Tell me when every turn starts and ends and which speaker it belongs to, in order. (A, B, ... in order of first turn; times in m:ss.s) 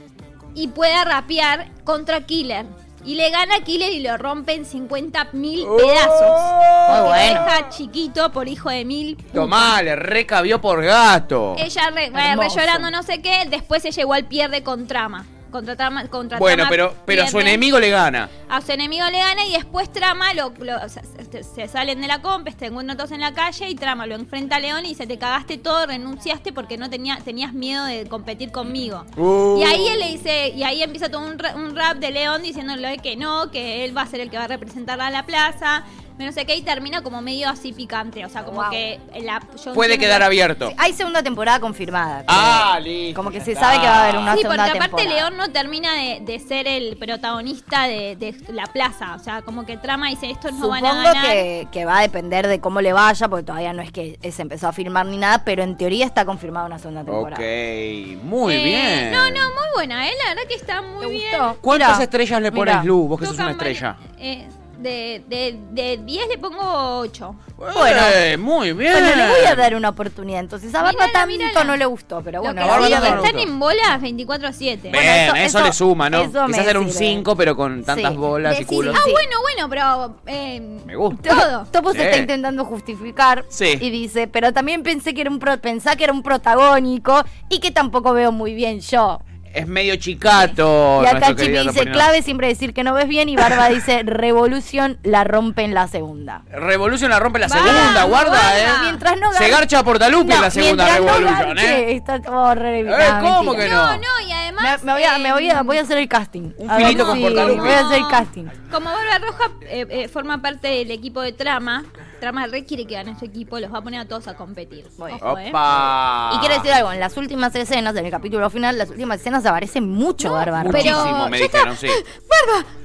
0:00.5-0:09.8 A
0:05.6-0:07.5 B
0:06.9-0:07.5 C
0:09.3-0:11.6 B
0:11.5-0:17.6 A
0:12.1-0:12.9 C
0:16.3-0:18.3 B
0:18.5-0:40.3 A
0:29.2-0:30.0 B
0:38.4-0:38.8 C
0:39.7-0:40.7 B
0:40.6-0:45.3 C
0:42.3-0:44.4 B
0:44.3-0:51.5 A
0:50.5-0:57.4 C
0:57.1-0:59.5 B
0:58.4-1:01.6 A
1:01.0-1:02.9 C
1:01.6-1:04.0 B
1:03.2-1:07.4 A
1:07.6-1:09.7 B
1:07.7-1:08.2 C
1:08.9-1:13.3 C
1:10.8-1:11.8 A
1:12.4-1:15.0 A
1:12.6-1:13.5 B
1:14.9-1:17.3 C
1:14.9-1:19.0 B
1:17.9-1:19.2 C
1:18.9-1:21.7 A
1:20.9-1:21.2 B
1:21.2-1:29.2 C
1:21.9-1:22.3 B
1:23.5-1:23.8 B
1:29.5-1:32.1 B
1:31.0-1:36.4 C
1:36.5-1:41.8 B
1:37.4-1:39.0 A
1:37.6-1:43.7 C
1:42.8-1:44.0 B
1:43.5-1:45.8 A
1:44.6-1:48.5 C
1:46.6-1:47.8 B
1:46.7-1:55.6 A
1:55.2-1:56.7 B
1:56.3-2:01.2 C
2:00.2-2:02.7 A
2:00.6-2:02.0 B